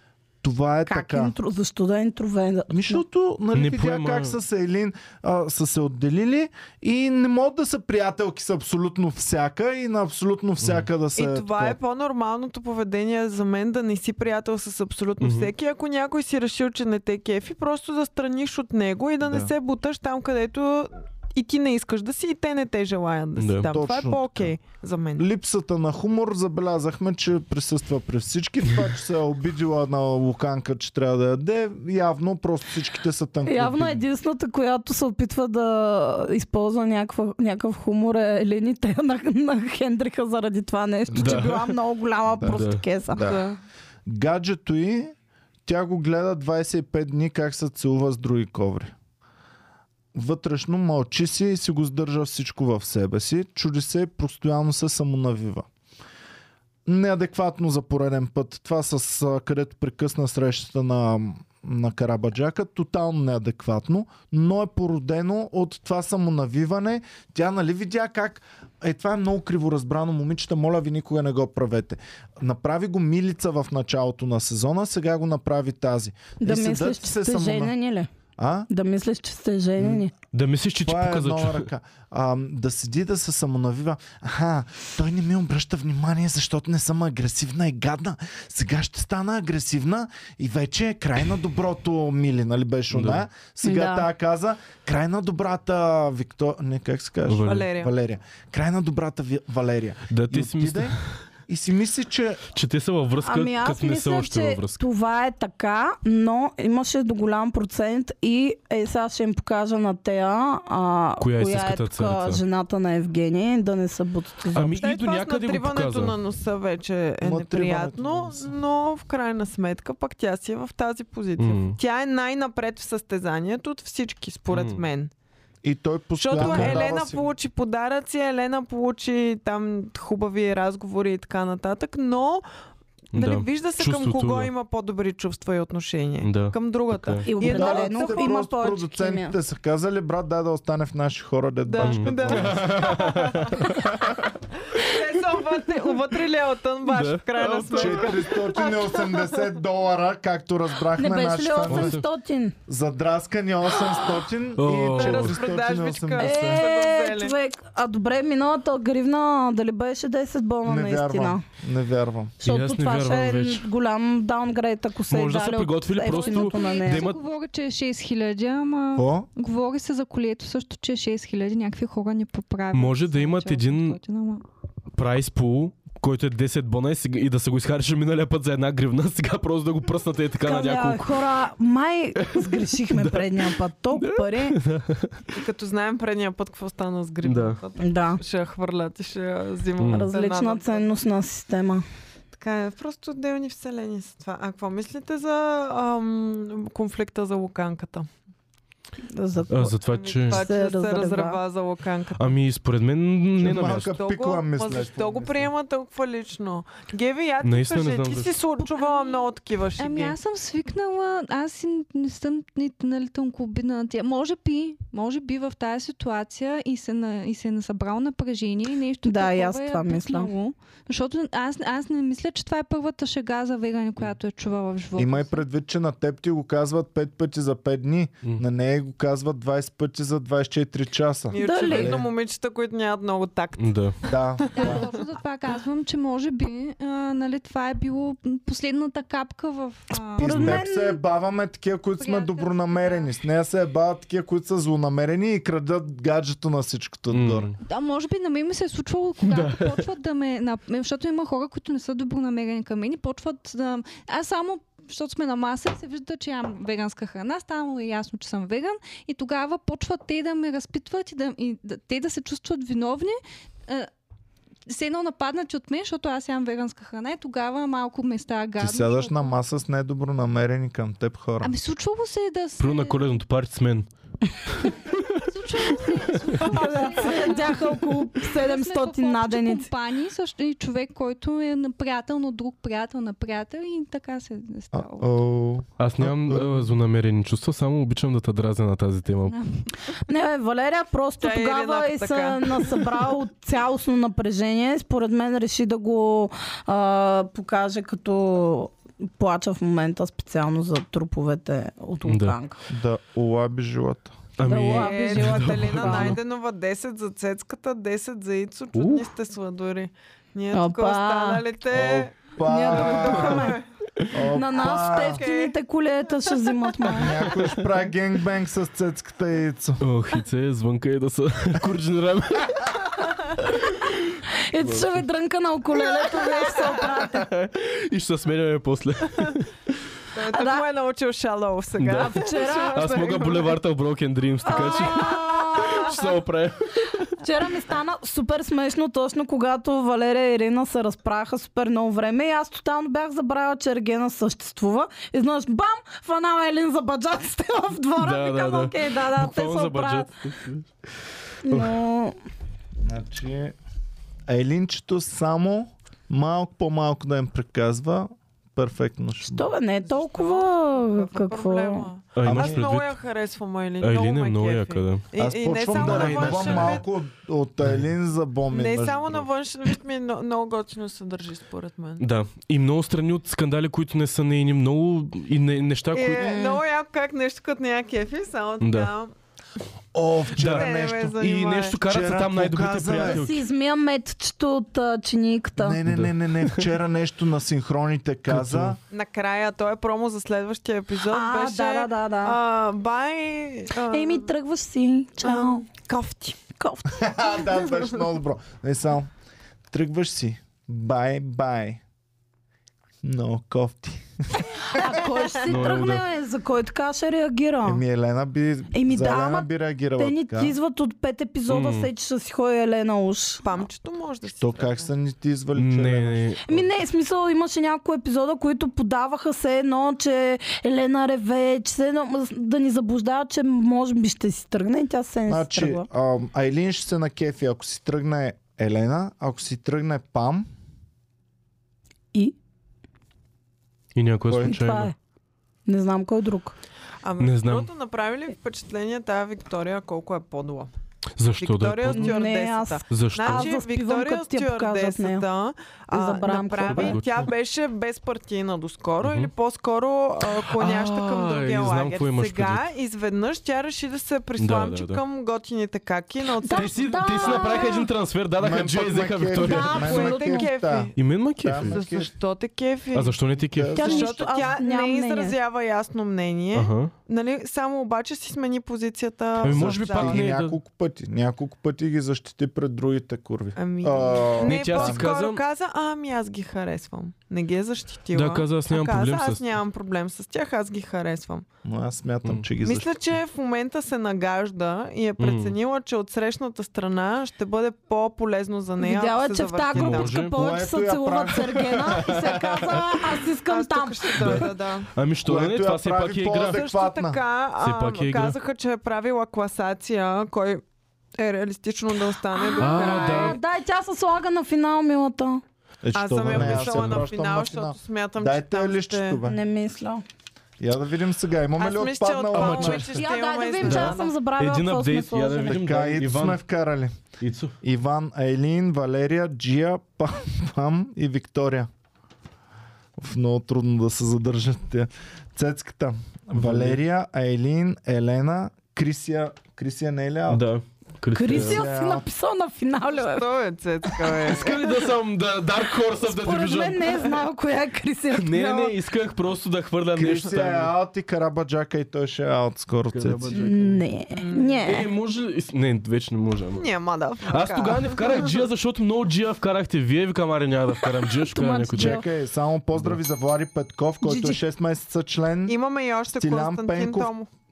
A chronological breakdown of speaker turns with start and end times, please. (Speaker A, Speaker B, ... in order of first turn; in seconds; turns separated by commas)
Speaker A: 0.4-1.3, Speaker B: 0.9-3.0, Speaker A: 2.7-11.8, Speaker C: 3.5-4.4, Speaker C: 10.6-10.9, Speaker D: 11.2-25.3, Speaker C: 15.2-15.5, Speaker A: 19.3-19.5, Speaker C: 23.4-23.7, Speaker A: 23.7-24.6, Speaker A: 25.2-34.0, Speaker B: 33.5-43.2, Speaker A: 41.1-41.4, Speaker C: 41.1-41.8, Speaker A: 42.3-43.4, Speaker C: 42.4-42.8, Speaker D: 43.2-43.6, Speaker A: 44.1-45.1, Speaker A: 45.7-48.9, Speaker A: 50.1-55.7, Speaker A: 56.9-77.8, Speaker B: 76.4-78.1, Speaker A: 78.4-78.7, Speaker B: 78.7-80.1, Speaker A: 79.8-80.1, Speaker C: 80.3-81.7, Speaker A: 80.8-102.5, Speaker C: 92.9-93.3, Speaker B: 93.6-94.1, Speaker C: 97.3-97.7, Speaker D: 97.4-97.9, Speaker C: 100.1-101.2, Speaker C: 102.5-104.8, Speaker B: 103.2-114.7, Speaker C: 111.2-112.4, Speaker C: 114.5-116.2, Speaker D: 114.7-125.1, Speaker A: 117.2-118.5, Speaker C: 121.4-121.8, Speaker C: 124.5-124.8, Speaker A: 125.6-127.3, Speaker D: 126.2-132.4, Speaker C: 126.4-126.9, Speaker D: 133.1-138.4, Speaker C: 133.1-134.5, Speaker C: 136.2-137.3, Speaker B: 137.3-139.3, Speaker A: 137.4-143.0, Speaker D: 141.7-143.9, Speaker C: 141.8-144.2, Speaker D: 144.6-149.5, Speaker C: 146.9-148.2, Speaker A: 147.7-152.0, Speaker B: 151.0-152.6, Speaker C: 151.7-152.1, Speaker A: 152.7-156.7, Speaker C: 154.6-155.4, Speaker D: 154.9-157.3, Speaker B: 156.2-161.4, Speaker A: 160.7-162.3, Speaker C: 162.4-163.7, Speaker B: 162.4-167.1, Speaker C: 165.1-167.2, Speaker E: 166.1-174.4, Speaker A: 168.9-169.3, Speaker C: 172.7-174.0, Speaker C: 174.9-181.2, Speaker B: 180.4-184.6, Speaker C: 182.3-185.2, Speaker D: 185.3-191.0, Speaker C: 187.2-187.6, Speaker B: 187.8-188.2, Speaker C: 189.8-190.1, Speaker B: 189.9-191.8, Speaker D: 192.3-198.1, Speaker B: 199.1-199.8, Speaker C: 199.5-200.5, Speaker D: 199.9-202.4, Speaker B: 200.3-201.4, Speaker C: 202.2-203.9, Speaker A: 203.4-205.5, Speaker D: 203.6-210.2, Speaker C: 207.4-208.3, Speaker E: 208.6-225.4, Speaker B: 219.0-220.3, Speaker A: 225.0-232.1, Speaker D: 231.3-234.9, Speaker B: 231.4-232.0, Speaker C: 233.6-234.0, Speaker A: 234.1-234.9, Speaker E: 234.5-240.5, Speaker A: 240.2-247.5, Speaker B: 240.2-241.0, Speaker E: 242.0-243.1, Speaker C: 247.1-247.6, Speaker E: 247.7-263.9, Speaker C: 249.2-249.9, Speaker E: 264.7-269.4, Speaker A: 268.6-271.5, Speaker E: 271.4-273.1, Speaker C: 272.6-273.9, Speaker E: 275.1-285.1, Speaker B: 276.4-279.7, Speaker A: 284.7-286.7, Speaker C: 285.8-289.4, Speaker E: 289.3-289.7, Speaker B: 290.1-302.6, Speaker D: 291.2-293.0, Speaker C: 302.1-302.4, Speaker A: 302.7-304.2, Speaker C: 304.4-306.2, Speaker B: 304.4-306.2, Speaker D: 304.7-313.7, Speaker C: 308.7-309.1, Speaker B: 310.5-311.4, Speaker A: 311.7-313.5, Speaker B: 312.4-313.6, Speaker A: 314.1-315.2, Speaker B: 314.3-317.3, Speaker D: 314.6-315.5, Speaker A: 316.9-319.8, Speaker C: 319.8-322.8, Speaker B: 324.5-327.3, Speaker C: 324.6-325.1, Speaker D: 326.2-326.8, Speaker C: 327.0-329.5, Speaker D: 330.1-333.6, Speaker B: 330.3-330.6, Speaker C: 331.8-337.1, Speaker B: 332.0-333.2, Speaker B: 334.4-335.9, Speaker D: 334.5-336.0, Speaker B: 337.2-350.1, Speaker C: 348.0-350.7, Speaker B: 351.4-352.1, Speaker C: 351.5-351.8, Speaker A: 352.8-353.6, Speaker A: 354.3-359.5, Speaker B: 359.2-361.9, Speaker D: 359.9-366.9, Speaker C: 362.2-363.0, Speaker A: 362.2-362.7, Speaker C: 363.8-365.1, Speaker A: 365.2-369.2, Speaker C: 365.7-366.8, Speaker D: 368.5-372.0, Speaker C: 372.0-376.3, Speaker D: 375.9-379.1, Speaker B: 376.2-376.6, Speaker C: 378.6-378.9, Speaker A: 379.9-381.2, Speaker C: 380.4-383.4, Speaker D: 380.4-381.8, Speaker A: 381.8-383.3, Speaker B: 383.0-385.8, Speaker A: 385.6-388.8, Speaker C: 385.9-386.7, Speaker C: 388.3-388.8, Speaker D: 388.9-394.3, Speaker B: 391.1-392.4, Speaker B: 393.9-395.7, Speaker D: 395.2-396.4, Speaker B: 396.6-397.2, Speaker A: 396.9-399.1, Speaker A: 399.7-401.8, Speaker A: 403.0-404.0, Speaker B: 404.7-407.8, Speaker C: 405.5-406.1, Speaker A: 407.6-410.6, Speaker B: 408.7-413.6, Speaker C: 411.5-411.9, Speaker D: 413.4-414.9, Speaker A: 414.4-416.4, Speaker C: 415.6-416.7, Speaker B: 416.5-425.9, Speaker A: 425.3-430.5, Speaker C: 433.9-434.9, Speaker B: 434.4-434.9, Speaker B: 435.7-436.6, Speaker D: 437.0-440.7, Speaker C: 437.2-437.7, Speaker C: 441.2-442.2, Speaker D: 441.4-457.8, Speaker B: 441.9-445.3, Speaker C: 442.9-443.6, Speaker B: 445.9-447.0, Speaker C: 446.6-447.3, Speaker C: 449.0-449.3, Speaker C: 450.2-452.7, Speaker C: 454.4-455.0, Speaker B: 456.4-457.9, Speaker C: 456.5-460.0, Speaker A: 458.4-462.1, Speaker B: 459.4-460.5, Speaker D: 459.8-461.0, Speaker C: 460.9-461.8, Speaker D: 461.6-463.2, Speaker C: 462.9-464.0, Speaker A: 463.5-464.2, Speaker B: 463.8-465.4, Speaker D: 463.8-470.3, Speaker C: 466.5-466.9, Speaker C: 469.4-470.6, Speaker A: 469.4-475.1, Speaker D: 473.6-481.4, Speaker C: 474.4-475.4, Speaker C: 478.1-479.4, Speaker A: 481.6-482.9, Speaker D: 482.6-490.1, Speaker C: 485.2-485.6, Speaker B: 488.8-494.5, Speaker C: 489.7-490.4, Speaker A: 490.3-492.3, Speaker D: 493.5-494.9, Speaker C: 494.2-496.6, Speaker A: 495.2-497.2, Speaker D: 496.3-500.6, Speaker C: 497.6-498.4, Speaker D: 501.2-503.4, Speaker B: 502.3-505.4, Speaker C: 502.6-503.4, Speaker A: 505.8-509.4, Speaker D: 505.9-509.2, Speaker C: 506.3-507.1, Speaker B: 509.2-510.0, Speaker A: 510.6-513.0, Speaker D: 511.6-514.1, Speaker C: 512.3-513.0, Speaker B: 512.9-515.6, Speaker C: 513.6-516.4, Speaker A: 515.5-517.0, Speaker C: 517.2-517.5, Speaker A: 517.6-521.7, Speaker A: 523.0-530.5, Speaker C: 526.3-526.8, Speaker C: 530.3-531.7, Speaker B: 531.1-533.3, Speaker A: 531.3-532.0, Speaker D: 532.9-534.9, Speaker C: 534.2-537.0, Speaker B: 536.0-538.8, Speaker C: 538.1-540.7, Speaker A: 540.0-543.3, Speaker C: 542.9-543.9, Speaker B: 543.3-544.9, Speaker D: 544.1-544.6, Speaker C: 544.6-546.7, Speaker D: 546.5-548.4, Speaker C: 547.3-552.0, Speaker B: 551.3-552.0, Speaker A: 551.8-555.6, Speaker B: 554.0-554.4, Speaker D: 555.5-557.3, Speaker A: 556.1-557.1